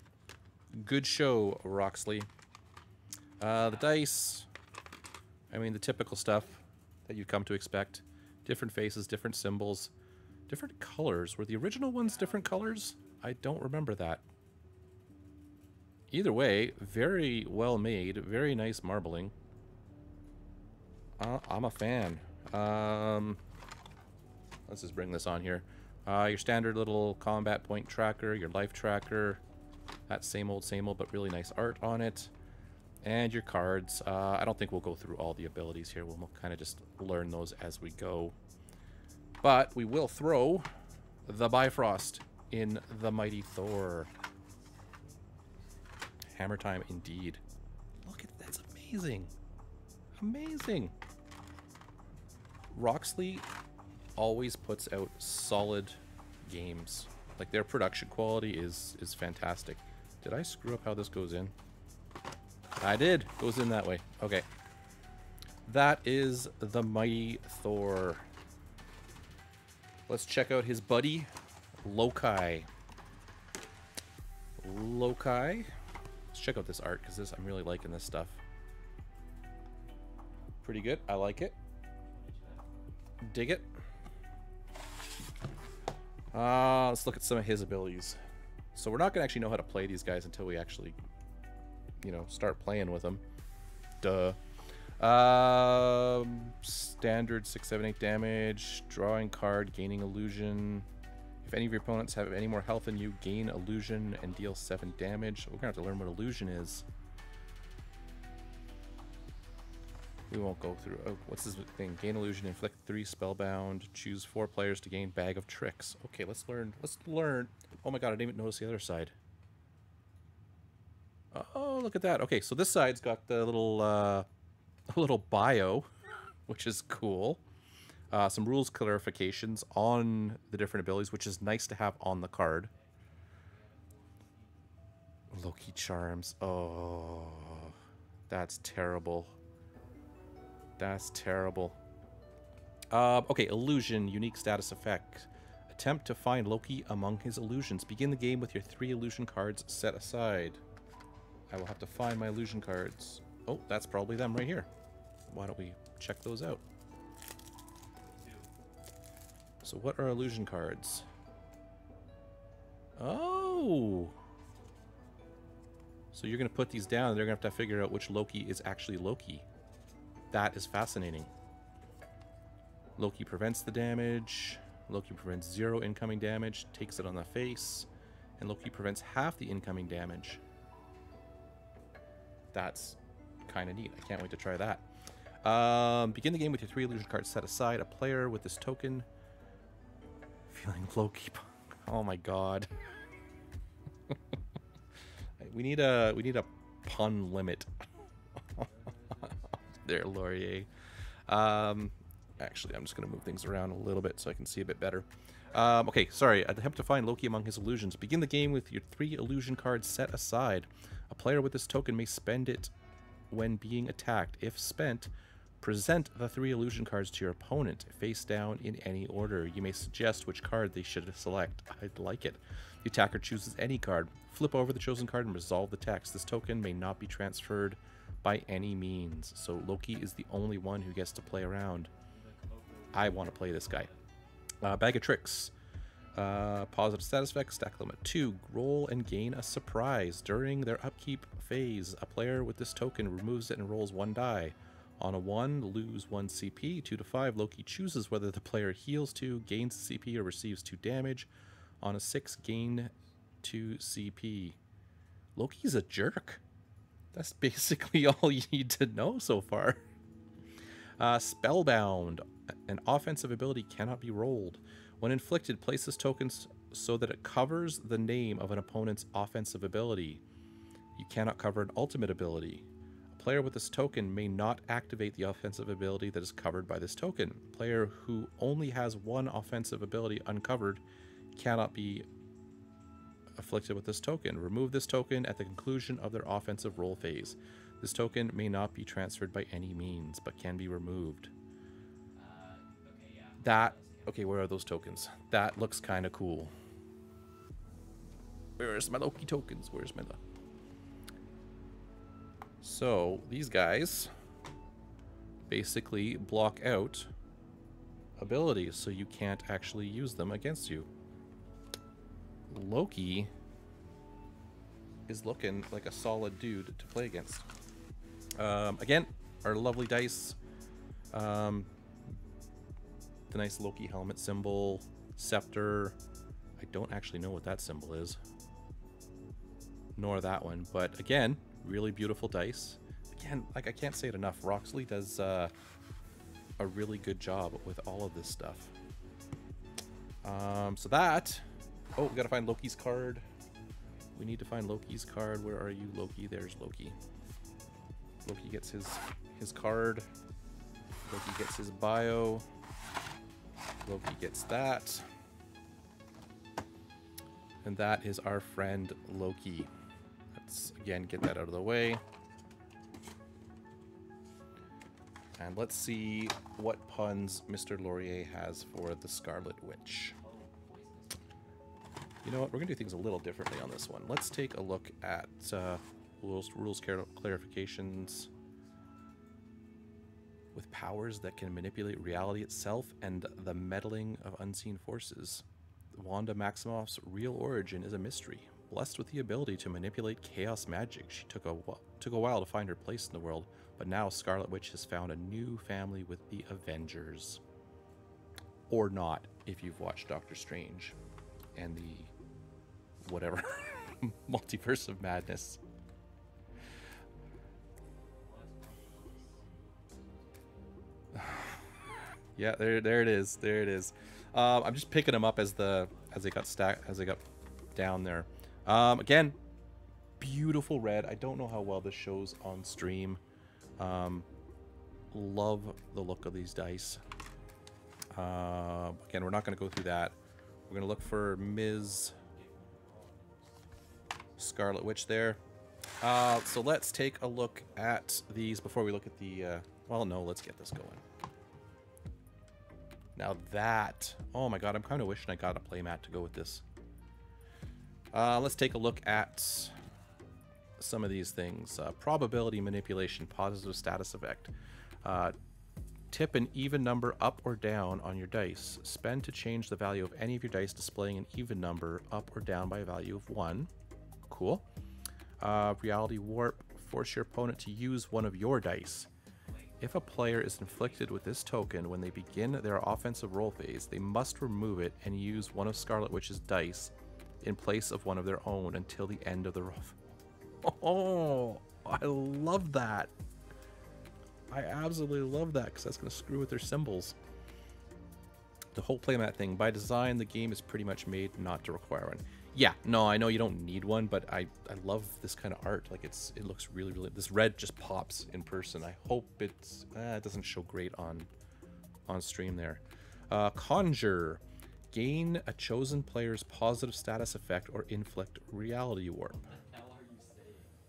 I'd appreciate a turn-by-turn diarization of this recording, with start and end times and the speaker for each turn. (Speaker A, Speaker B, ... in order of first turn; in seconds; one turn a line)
Speaker A: 0.7-2.3
Speaker A: 3.4-4.5
Speaker A: 5.5-9.9
Speaker A: 10.5-14.2
Speaker B: 12.0-13.3
Speaker A: 16.1-19.3
Speaker A: 21.2-23.4
Speaker A: 24.7-29.4
Speaker A: 30.1-32.3
Speaker A: 33.0-38.4
Speaker A: 39.4-40.7
Speaker A: 41.3-44.1
Speaker B: 44.6-45.5
Speaker A: 46.3-47.4
Speaker A: 48.0-49.3
Speaker A: 50.2-50.9
Speaker A: 52.7-53.5
Speaker A: 54.2-61.5
Speaker A: 62.8-64.5
Speaker A: 65.7-68.3
Speaker A: 70.1-71.3
Speaker A: 71.8-72.7
Speaker A: 74.6-75.7
Speaker A: 76.3-78.4
Speaker A: 80.6-81.6
Speaker B: 82.1-82.8
Speaker A: 83.2-83.7
Speaker A: 86.3-88.2
Speaker A: 88.7-91.0
Speaker A: 92.0-93.2
Speaker A: 94.0-94.4
Speaker A: 95.0-100.9
Speaker A: 101.4-106.8
Speaker B: 103.7-106.2
Speaker A: 110.3-119.1
Speaker A: 121.3-124.3
Speaker A: 124.9-125.9
Speaker A: 126.5-127.4
Speaker A: 128.1-132.7
Speaker B: 132.7-134.7
Speaker A: 135.3-137.8
Speaker A: 138.3-139.3
Speaker A: 140.8-141.8
Speaker A: 142.9-150.6
Speaker A: 151.5-154.7
Speaker A: 155.3-156.6
Speaker B: 158.2-158.5
Speaker A: 159.6-161.1
Speaker A: 163.0-164.2
Speaker A: 166.1-169.4
Speaker A: 170.3-171.3
Speaker A: 173.0-177.9
Speaker A: 178.4-180.4
Speaker A: 182.5-184.9
Speaker A: 185.4-189.1
Speaker A: 190.5-192.7
Speaker A: 195.4-197.7
Speaker B: 198.6-199.8
Speaker A: 199.8-200.7
Speaker A: 201.3-212.7
Speaker B: 205.5-206.1
Speaker A: 213.3-231.9
Speaker B: 232.1-234.1
Speaker A: 232.9-233.9
Speaker A: 234.6-235.5
Speaker A: 236.1-251.3
Speaker A: 251.8-254.6
Speaker A: 255.4-256.4
Speaker A: 257.1-259.8
Speaker A: 261.0-270.2
Speaker A: 271.0-280.8
Speaker A: 281.4-282.1
Speaker A: 283.4-291.3
Speaker B: 292.1-294.4
Speaker A: 293.4-296.5
Speaker A: 298.6-300.2
Speaker A: 302.6-304.1
Speaker A: 305.5-307.1
Speaker A: 308.2-310.9
Speaker A: 312.5-313.3
Speaker A: 315.1-317.4
Speaker A: 318.4-320.4
Speaker A: 321.1-321.7
Speaker A: 323.3-326.0
Speaker A: 326.6-328.2
Speaker A: 330.0-335.5
Speaker A: 336.6-338.7
Speaker A: 340.2-341.4
Speaker A: 342.0-343.3
Speaker A: 344.2-347.0
Speaker A: 348.2-350.1
Speaker A: 351.1-352.5
Speaker A: 353.9-355.1
Speaker A: 357.6-359.7
Speaker A: 360.4-362.0
Speaker A: 365.4-370.2
Speaker B: 370.1-371.8
Speaker A: 372.2-378.3
Speaker B: 377.8-379.0
Speaker A: 380.5-397.4
Speaker A: 398.7-401.0
Speaker A: 401.6-402.1
Speaker A: 403.0-405.6
Speaker B: 408.2-410.8
Speaker A: 411.1-411.6
Speaker A: 412.4-417.2
Speaker B: 415.6-417.2
Speaker A: 417.8-419.4
Speaker A: 420.2-423.2
Speaker A: 423.8-424.3
Speaker A: 425.1-427.0
Speaker A: 428.1-430.1
Speaker A: 430.7-432.2
Speaker B: 432.1-433.8
Speaker A: 434.4-435.4
Speaker A: 436.0-441.0
Speaker A: 443.2-446.6
Speaker A: 448.1-449.8
Speaker A: 450.8-454.5
Speaker A: 455.0-455.4
Speaker A: 456.1-463.7
Speaker A: 464.3-464.6
Speaker A: 465.4-469.1
Speaker B: 469.5-472.2
Speaker A: 469.8-480.0
Speaker A: 480.6-483.1
Speaker A: 484.5-487.2
Speaker A: 488.7-501.3
Speaker A: 502.1-504.4
Speaker A: 504.9-509.5
Speaker B: 509.3-510.8